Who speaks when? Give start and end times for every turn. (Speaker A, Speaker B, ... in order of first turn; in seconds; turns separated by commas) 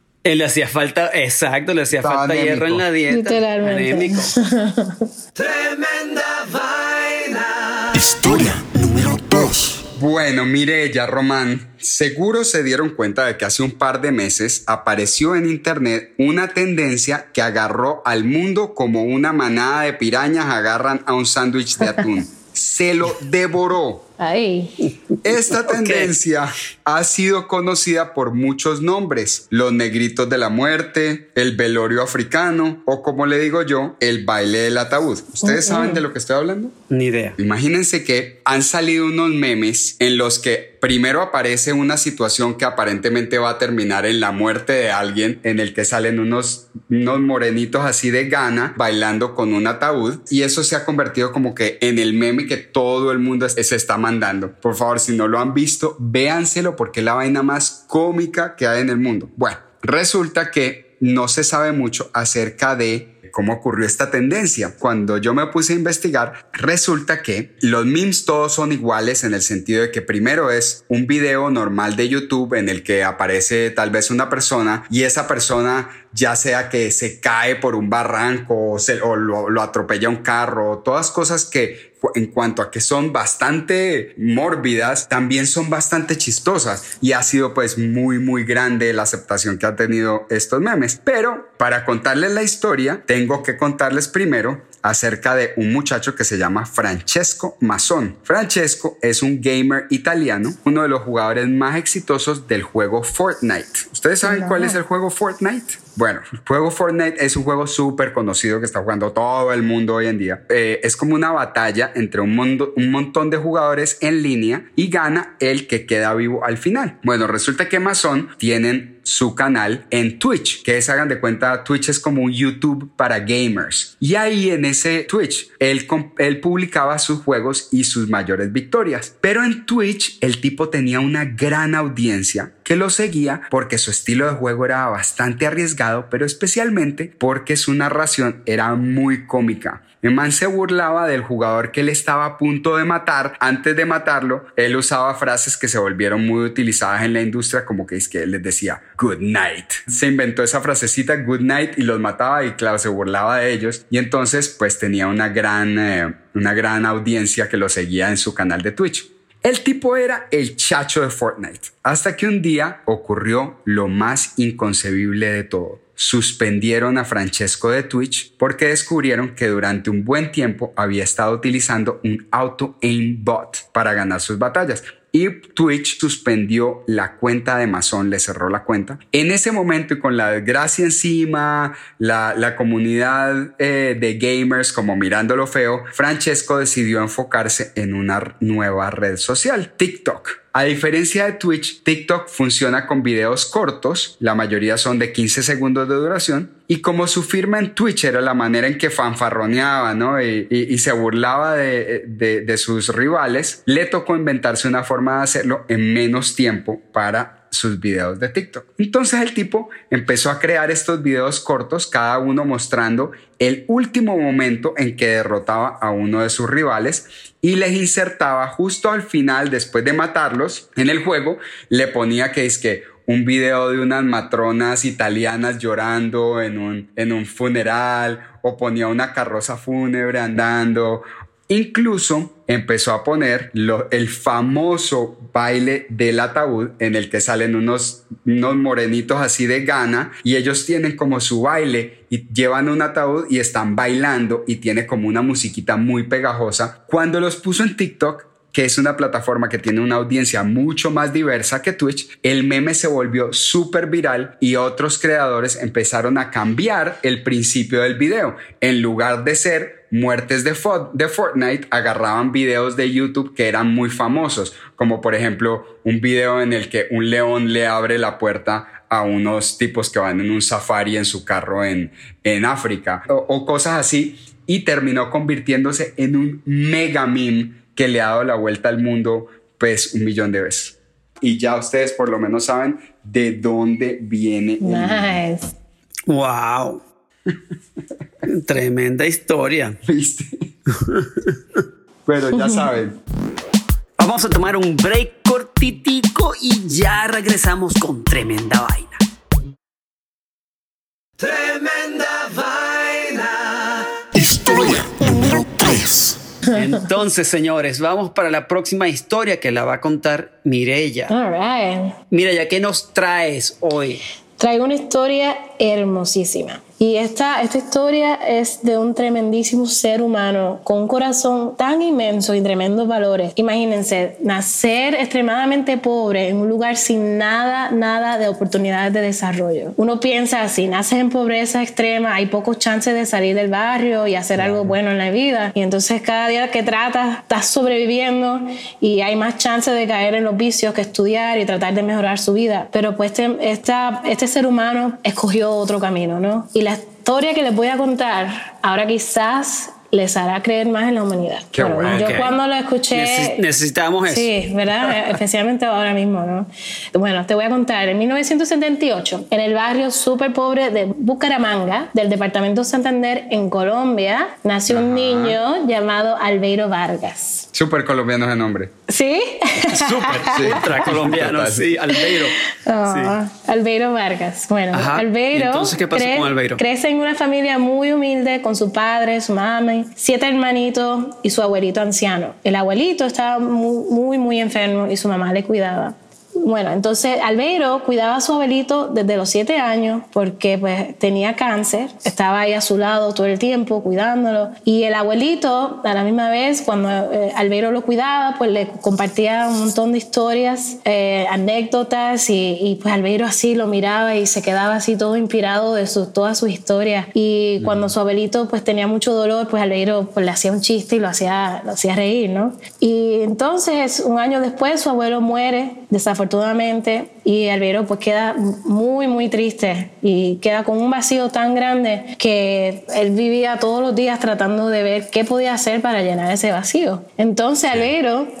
Speaker A: 0.2-4.4, Speaker B: 1.9-2.8, Speaker C: 3.1-5.1, Speaker D: 5.3-8.0, Speaker E: 7.9-9.8, Speaker B: 10.0-24.0, Speaker C: 24.2-24.8, Speaker B: 25.2-36.7, Speaker A: 25.3-26.1, Speaker C: 35.4-36.0, Speaker A: 36.9-37.4, Speaker B: 37.4-285.2, Speaker C: 104.2-104.8, Speaker C: 284.6-285.5, Speaker A: 286.1-286.8, Speaker A: 288.3-289.8, Speaker B: 289.8-290.5, Speaker A: 290.7-291.6, Speaker B: 292.1-293.0, Speaker C: 292.3-292.6, Speaker A: 294.0-299.0, Speaker D: 301.2-304.1, Speaker E: 304.1-306.2, Speaker A: 306.5-311.1, Speaker C: 311.1-311.9, Speaker A: 312.1-314.0, Speaker C: 314.4-353.4, Speaker B: 334.4-334.8, Speaker B: 351.5-352.2, Speaker A: 351.8-352.4, Speaker A: 352.9-354.3, Speaker C: 354.1-367.5, Speaker B: 364.7-365.4, Speaker B: 367.5-368.7, Speaker C: 368.9-370.8, Speaker A: 369.7-373.2, Speaker B: 370.3-371.7, Speaker C: 371.9-428.3, Speaker A: 374.7-376.6, Speaker B: 407.6-407.9